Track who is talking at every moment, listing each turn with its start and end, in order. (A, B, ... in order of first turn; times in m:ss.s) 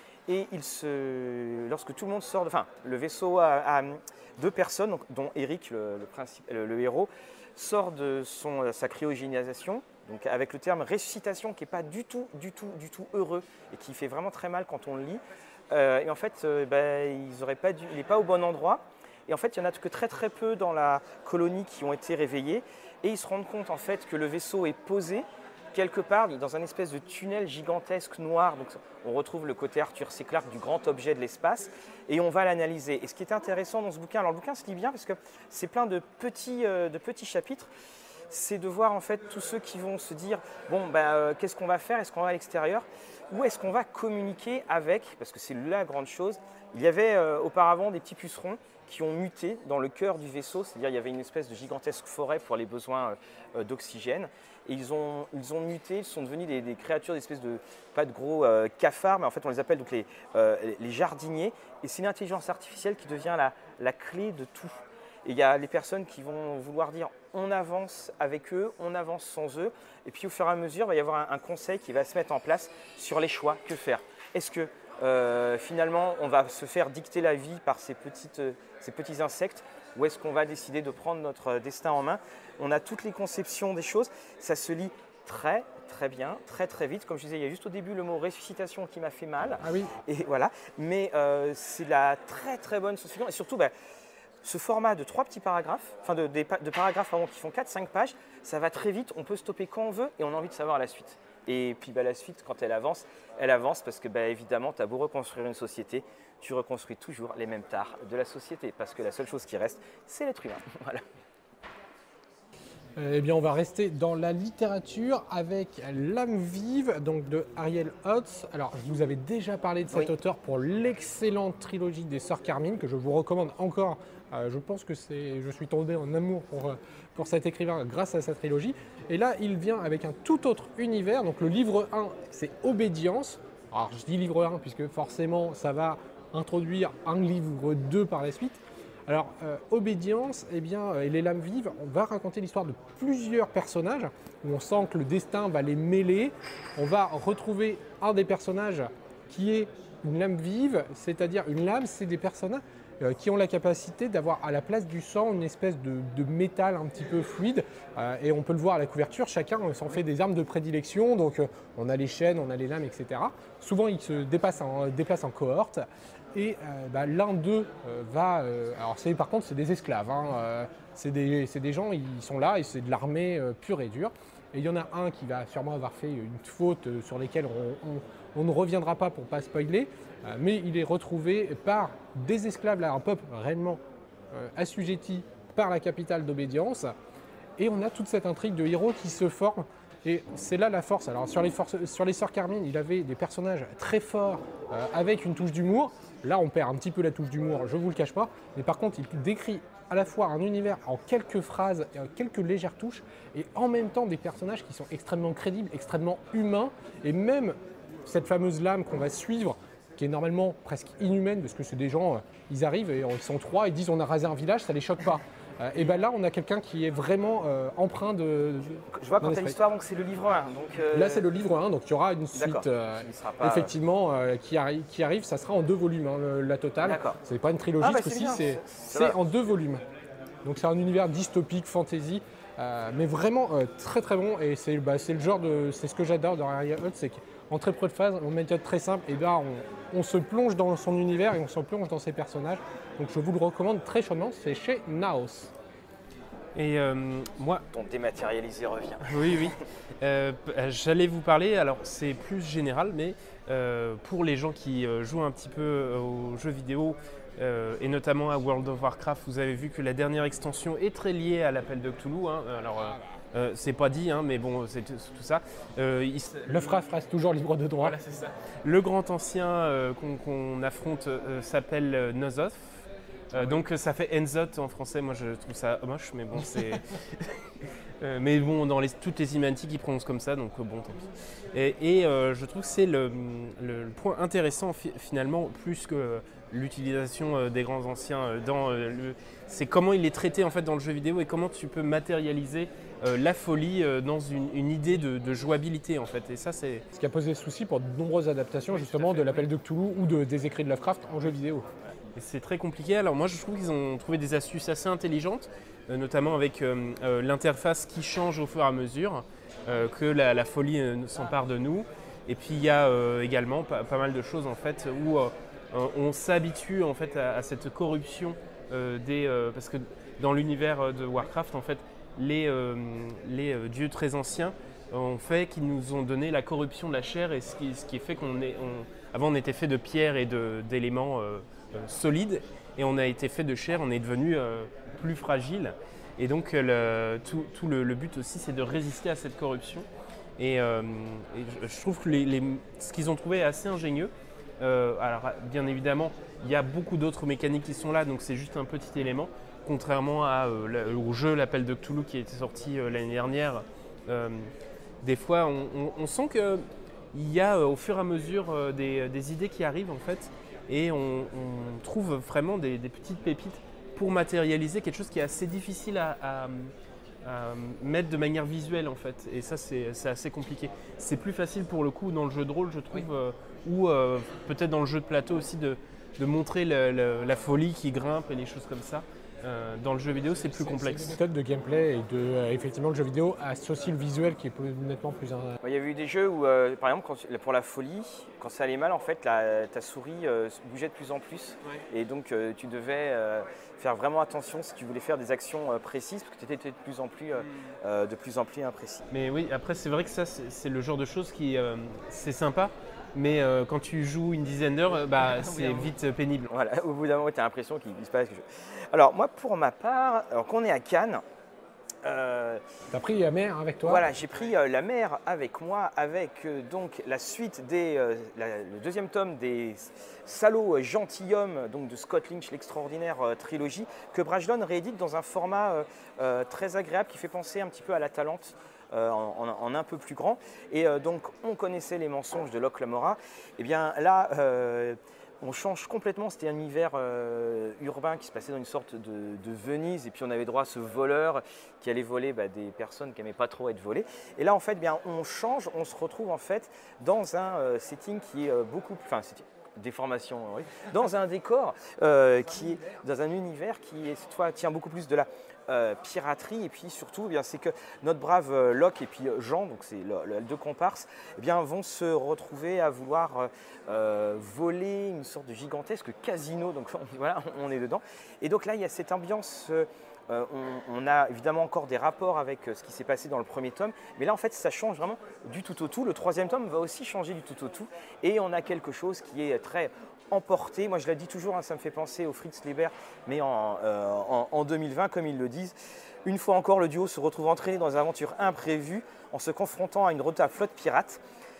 0:00.3-0:37.7 A
0:38.3-1:33.7 A
1:29.6-1:29.9 B
1:34.4-1:51.1 A
1:53.0-3:03.8 B
3:04.3-3:06.9 B
3:07.6-3:39.6 B
3:38.9-3:41.3 A
3:40.9-3:49.8 B
3:42.3-3:43.7 A
3:46.8-3:47.2 A
3:47.8-3:49.2 A
3:50.4-4:05.5 B
4:06.6-4:07.6 C
4:07.7-4:09.6 A
4:09.0-4:26.8 C
4:26.5-4:28.0 B
4:27.8-4:56.8 C
4:57.0-5:01.7 B
4:58.9-4:59.5 C
5:02.2-5:39.9 C
5:40.4-5:54.5 C
5:55.0-6:06.7 C
6:07.2-6:21.2 C
6:20.7-6:25.6 B
6:25.6-6:39.0 A
6:39.1-6:46.5 C
6:46.5-6:51.2 A
6:52.0-6:52.6 A
6:52.9-6:54.1 B
6:53.8-8:11.2 A